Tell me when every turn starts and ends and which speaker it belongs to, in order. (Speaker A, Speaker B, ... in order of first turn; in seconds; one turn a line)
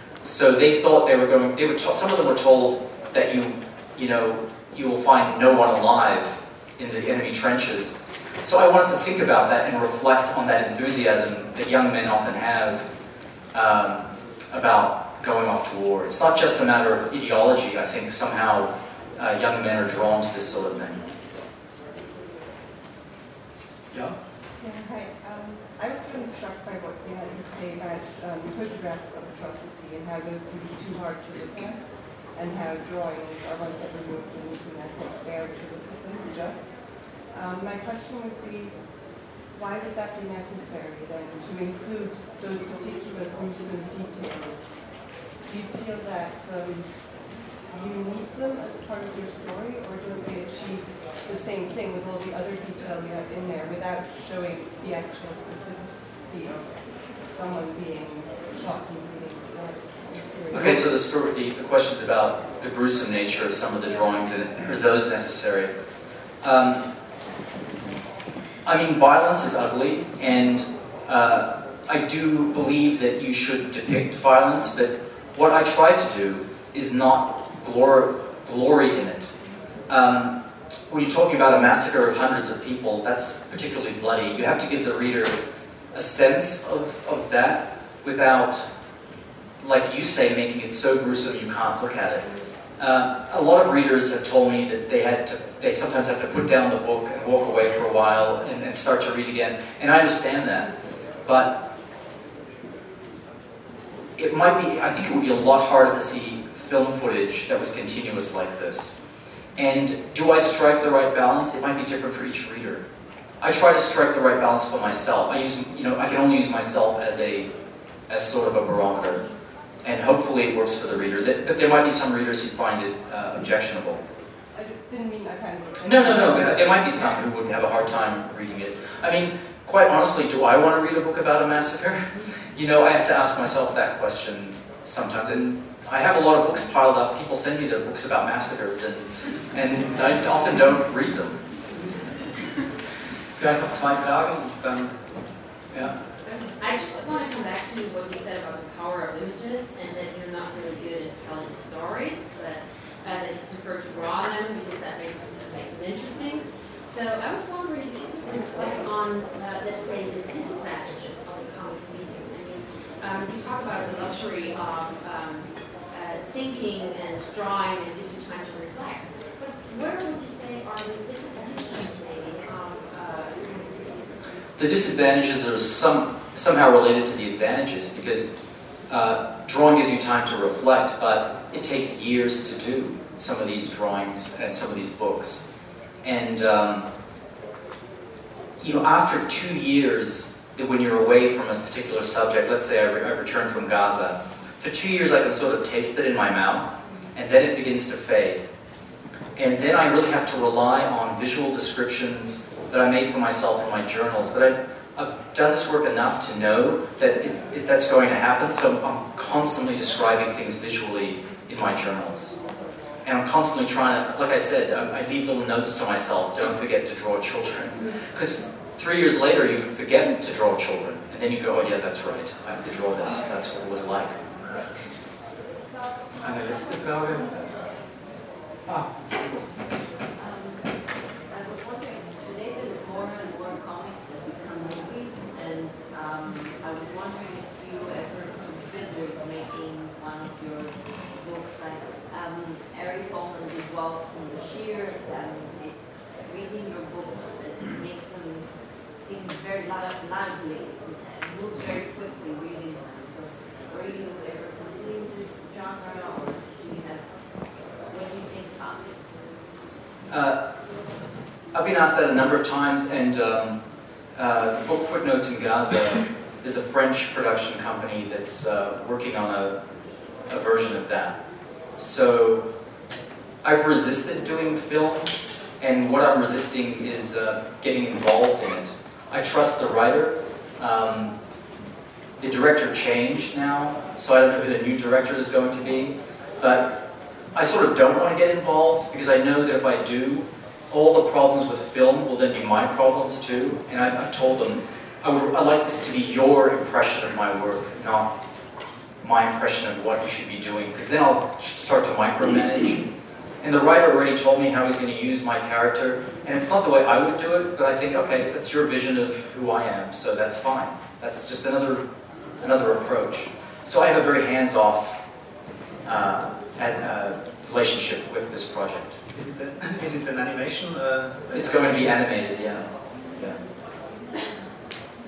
Speaker A: 0.2-12.9
Speaker A: 13.5-21.1
Speaker B: 23.9-24.1
Speaker C: 24.6-60.9
Speaker A: 60.5-65.7
Speaker A: 66.4-66.8
Speaker A: 68.6-79.3
Speaker A: 79.9-80.4
Speaker A: 80.9-85.4
Speaker A: 85.9-88.7
Speaker A: 89.6-100.7
Speaker A: 101.2-101.6
Speaker A: 104.2-109.0
Speaker A: 109.5-112.8
Speaker A: 113.4-117.5
Speaker A: 118.1-119.3
Speaker A: 119.8-124.0
Speaker C: 124.5-127.2
Speaker A: 125.8-141.4
Speaker B: 143.4-145.3
Speaker D: 146.2-174.2
Speaker A: 174.6-178.3
Speaker A: 178.9-185.4
Speaker A: 186.0-186.9
Speaker A: 188.6-198.4
Speaker A: 199.3-212.4
Speaker A: 213.0-224.2
Speaker B: 226.1-227.6
Speaker E: 230.2-259.4
Speaker A: 260.1-260.4
Speaker A: 261.5-263.6
Speaker A: 264.1-269.6
Speaker A: 270.3-271.2
Speaker A: 271.8-272.5
Speaker A: 273.4-281.1
Speaker A: 282.2-298.1
Speaker A: 299.0-302.9
Speaker A: 303.4-311.8
Speaker A: 312.4-315.0
Speaker A: 315.8-319.0
Speaker B: 319.1-322.0
Speaker A: 321.3-323.4